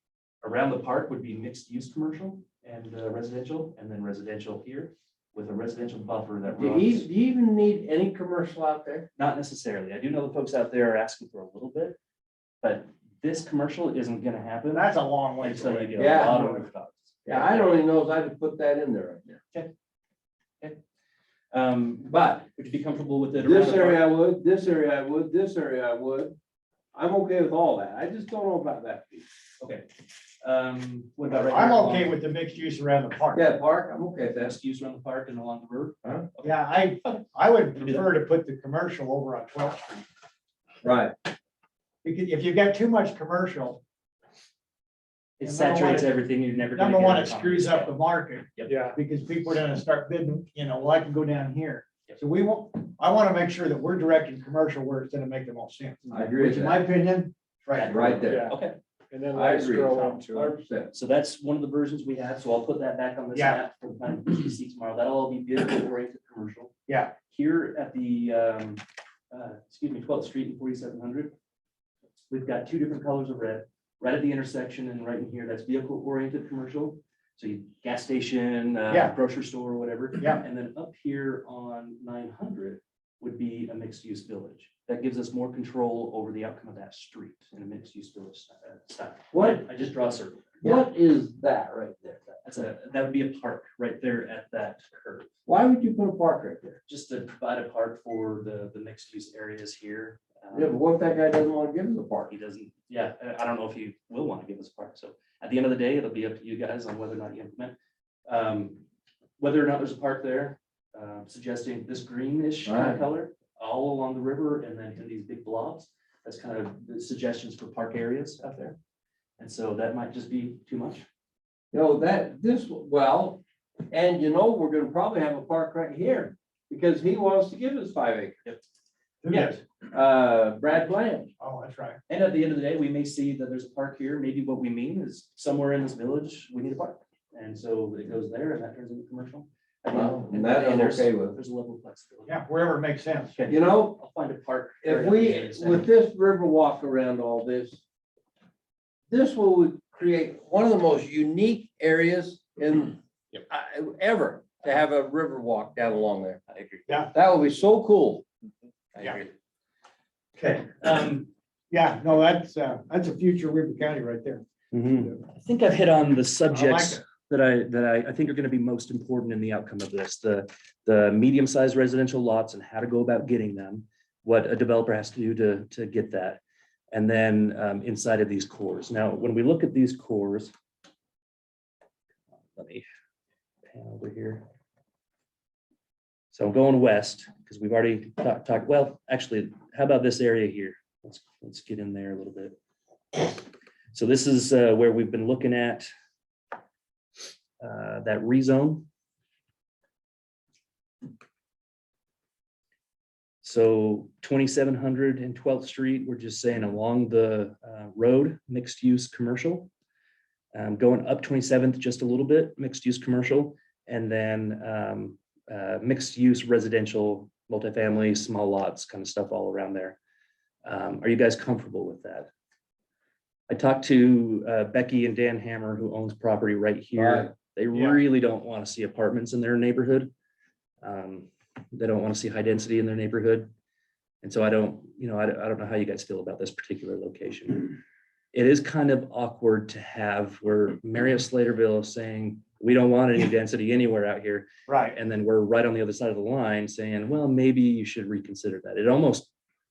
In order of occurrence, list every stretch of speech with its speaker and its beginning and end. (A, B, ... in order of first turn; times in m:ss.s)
0:00.4-0:07.1 A
0:06.4-0:09.1 B
0:09.2-0:12.0 A
0:12.6-0:17.7 A
0:14.7-0:16.6 C
0:16.0-0:16.4 B
0:17.2-0:19.4 B
0:21.5-0:24.1 A
0:22.1-0:22.4 B
0:23.4-0:26.4 B
0:26.9-0:29.2 B
0:29.6-0:29.9 A
0:30.4-0:32.2 A
0:31.3-0:33.4 C
0:33.3-0:34.6 B
0:34.3-0:37.2 A
0:36.4-0:40.0 C
0:40.8-0:41.1 B
0:42.0-0:43.8 C
0:45.4-0:48.0 A
0:45.4-0:46.2 C
0:46.7-0:58.0 C
0:48.6-0:49.0 D
0:56.1-0:56.8 B
0:57.7-0:58.8 A
0:57.8-0:58.5 B
0:58.2-0:58.6 D
0:59.1-1:00.6 D
0:59.3-1:00.9 B
1:00.9-1:06.7 A
1:03.3-1:03.6 C
1:06.9-1:07.1 C
1:07.3-1:11.3 A
1:12.3-1:30.9 A
1:18.9-1:19.1 C
1:20.2-1:20.4 C
1:29.3-1:29.6 B
1:30.6-1:32.4 B
1:32.4-1:35.3 A
1:35.4-1:36.8 B
1:36.9-1:40.8 A
1:40.5-1:42.3 B
1:42.3-1:47.8 A
1:48.3-1:48.8 A
1:49.4-1:58.8 A
1:52.6-1:53.0 B
1:59.4-2:01.0 A
2:01.7-2:08.4 B
2:09.2-2:09.6 C
2:09.3-2:09.6 A
2:09.9-2:11.3 B
2:11.4-2:12.0 C
2:12.1-2:22.4 A
2:19.9-2:21.4 B
2:22.3-2:23.3 C
2:23.3-2:25.9 A
2:23.5-2:24.0 B
2:24.8-2:27.8 B
2:29.1-2:36.4 B
2:36.5-2:37.0 A
2:36.9-2:37.1 C
2:37.1-2:38.2 B
2:38.9-2:39.3 B
2:40.4-2:40.7 C
2:40.8-2:41.3 A
2:41.7-2:45.2 C
2:44.7-2:56.4 A
2:46.5-2:47.0 C
2:56.9-3:00.5 A
3:02.5-3:02.8 A
3:03.7-3:04.4 A
3:06.3-3:12.6 A
3:13.9-3:15.9 A
3:17.6-3:18.9 A
3:23.4-3:29.7 A
3:30.5-3:40.0 A
3:40.6-3:42.3 A
3:43.5-3:50.1 A
3:47.0-3:47.3 B
3:50.8-3:53.5 A
3:54.2-3:57.8 A
3:58.3-4:09.3 A
4:04.7-4:05.0 C